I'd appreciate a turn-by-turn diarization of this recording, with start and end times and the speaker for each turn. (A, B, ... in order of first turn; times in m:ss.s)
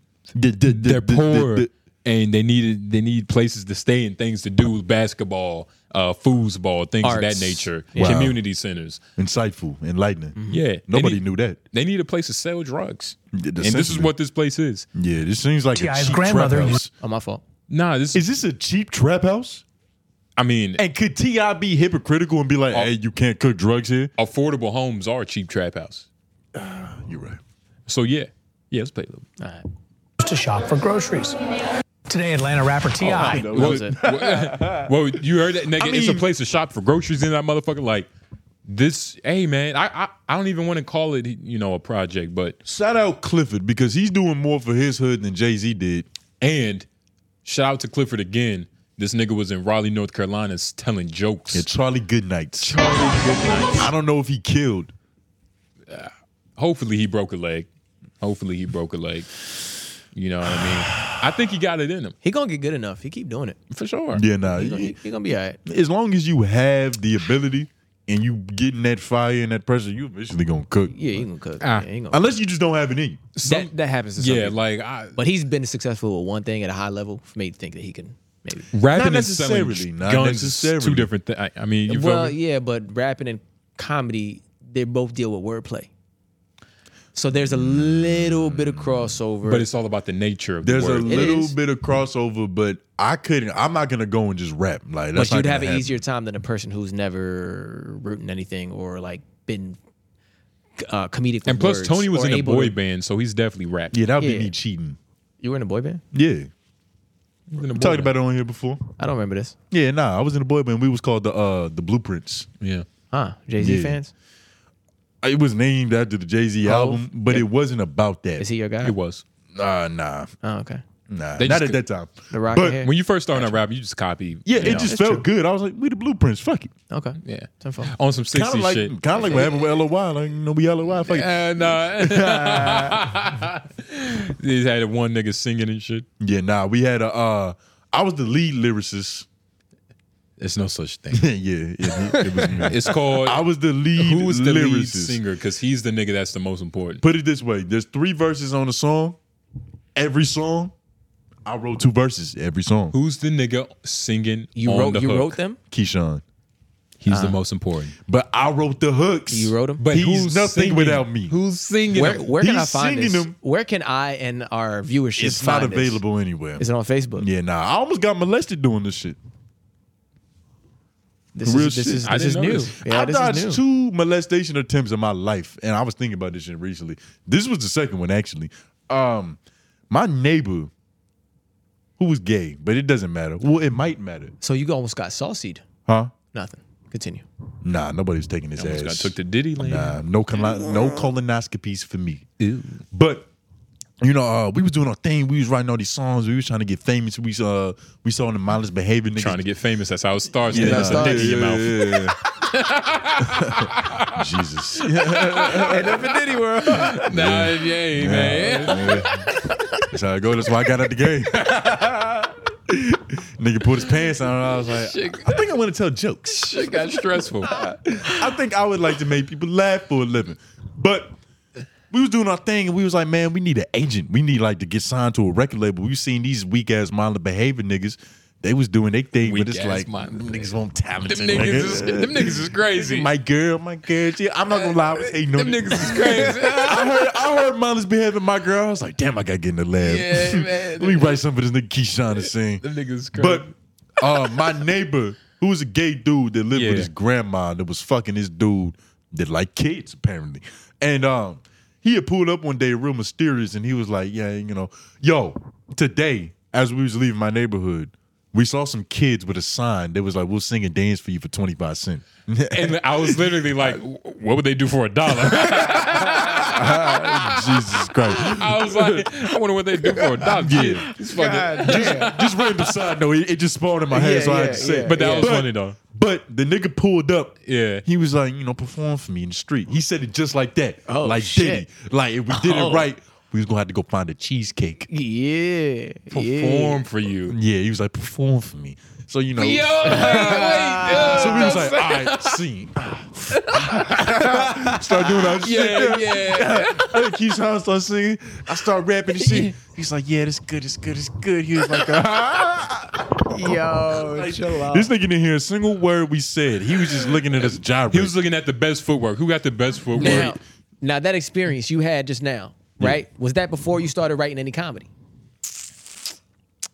0:00.4-0:01.7 A
0:00.6-0:09.0 B
0:07.0-0:08.2 C
0:08.0-0:08.4 A
0:09.2-0:11.6 A
0:10.3-0:10.6 C
0:10.5-0:14.9 B
0:13.3-0:14.1 A
0:14.9-0:16.9 A
0:15.7-0:16.8 D
0:17.0-0:17.4 C
0:17.7-0:18.2 B
0:18.1-0:19.6 A
0:20.4-0:20.8 B
0:20.8-0:24.1 A
0:24.2-0:26.0 B
0:26.5-0:27.4 A
0:27.9-0:29.2 B
0:29.4-0:29.6 C
0:30.2-0:31.4 D
0:32.1-0:33.5 D
0:33.0-0:34.9 A
0:33.3-0:34.0 C
0:33.4-0:38.1 B
0:35.8-0:36.2 A
0:38.6-0:42.6 B
0:42.6-0:46.1 A
0:46.4-0:46.8 B
0:47.4-0:51.6 B
0:51.5-0:52.8 A
0:52.6-0:53.9 B
0:53.7-0:54.9 A
0:55.9-0:57.7 B
0:58.2-0:59.5 B
1:00.1-1:02.1 B
1:02.2-1:05.6 C
1:03.7-1:04.2 B
1:04.1-1:05.0 A
1:05.6-1:11.0 A
1:10.9-1:12.2 C
1:11.6-1:11.9 B
1:12.1-1:13.3 A
1:13.4-1:15.2 B
1:13.4-1:14.6 C
1:15.1-1:18.7 C
1:18.7-1:22.4 B
1:18.9-1:21.1 A
1:21.9-1:25.9 C
1:27.1-1:29.7 C
1:27.5-1:28.9 A
1:29.4-1:31.3 B
1:30.6-1:36.0 A
1:31.0-1:31.6 C
1:35.1-1:39.8 C
1:40.8-1:42.8 C
1:41.4-1:44.0 B
1:43.9-1:45.0 A
1:44.2-1:44.5 C
1:45.4-1:46.0 C
1:46.1-1:46.5 A
1:47.5-1:48.1 B
1:47.7-1:48.8 A
1:49.0-1:49.6 C
1:49.7-1:52.5 A
1:52.6-1:52.8 B
1:53.1-1:54.1 C
1:53.6-1:54.0 A
1:55.2-1:58.4 A
1:56.6-1:57.4 C
1:58.4-1:58.9 C
1:58.8-1:59.2 B
1:59.5-2:00.3 A
2:00.4-2:00.8 C
2:01.1-2:02.8 A
2:01.4-2:01.8 B
2:02.3-2:03.5 C
2:02.8-2:04.9 B
2:04.4-2:06.7 A
2:04.6-2:05.2 C
2:06.9-2:07.9 C
2:07.2-2:09.5 B
2:08.3-2:13.0 A
2:11.0-2:16.0 B
2:16.2-2:19.2 A
2:20.4-2:21.3 B
2:21.1-2:25.2 A
2:22.6-2:23.4 B
2:23.9-2:27.0 B
2:27.0-2:29.2 A
2:30.0-2:30.7 A
2:31.4-2:32.9 A
2:32.9-2:35.4 B
2:34.6-2:35.6 C
2:35.7-2:36.2 A
2:37.0-2:38.0 B
2:37.1-2:37.4 C
2:38.1-2:41.4 A
2:39.3-2:39.8 C
2:39.8-2:42.2 B
2:41.9-2:46.0 C
2:42.4-2:43.4 A
2:45.2-2:46.6 A
2:46.6-2:47.3 C
2:47.2-2:49.2 A
2:51.3-2:53.6 C
2:51.4-2:52.1 A
2:52.0-2:52.7 B
2:52.8-2:59.4 A
2:59.9-3:00.7 A
3:02.0-3:04.3 A
3:04.4-3:05.6 C
3:05.9-3:06.1 A
3:06.3-3:07.2 C
3:07.6-3:12.2 A
3:08.6-3:10.0 B
3:12.4-3:12.8 B
3:12.9-3:13.3 A
3:14.0-3:19.4 A
3:19.2-3:24.2 B
3:20.5-3:21.5 C
3:20.5-3:22.2 A
3:23.3-3:26.1 A
3:24.8-3:29.7 B
3:25.5-3:27.0 C
3:26.9-3:29.2 A
3:29.9-3:31.4 A
3:31.3-3:32.3 B
3:32.7-3:36.8 A
3:34.4-3:35.4 B
3:36.3-3:38.2 B
3:38.0-3:41.1 A
3:41.9-4:03.5 A
3:49.2-3:50.5 B
3:51.0-3:53.1 B
3:54.5-3:57.2 B
3:59.8-4:01.2 B
4:02.6-4:03.5 B
4:04.0-4:23.8 A
4:06.5-4:06.9 B
4:22.5-4:32.6 B
4:25.6-4:29.0 A
4:30.2-4:30.9 A
4:30.5-4:32.2 C
4:31.6-4:44.9 A
4:33.9-4:35.4 C
4:34.8-4:35.8 B
4:37.4-4:37.8 B
4:40.9-4:41.7 C
4:42.3-4:42.9 C
4:44.9-4:46.8 C
4:46.1-4:47.4 B
4:47.3-4:50.5 A
4:49.4-4:52.4 B
4:49.8-4:51.6 C
4:51.1-5:03.1 A
4:53.3-4:57.1 B
5:03.3-5:04.9 C
5:03.9-5:08.1 A
5:07.9-5:10.3 B
5:10.0-5:14.9 C
5:10.0-5:10.3 A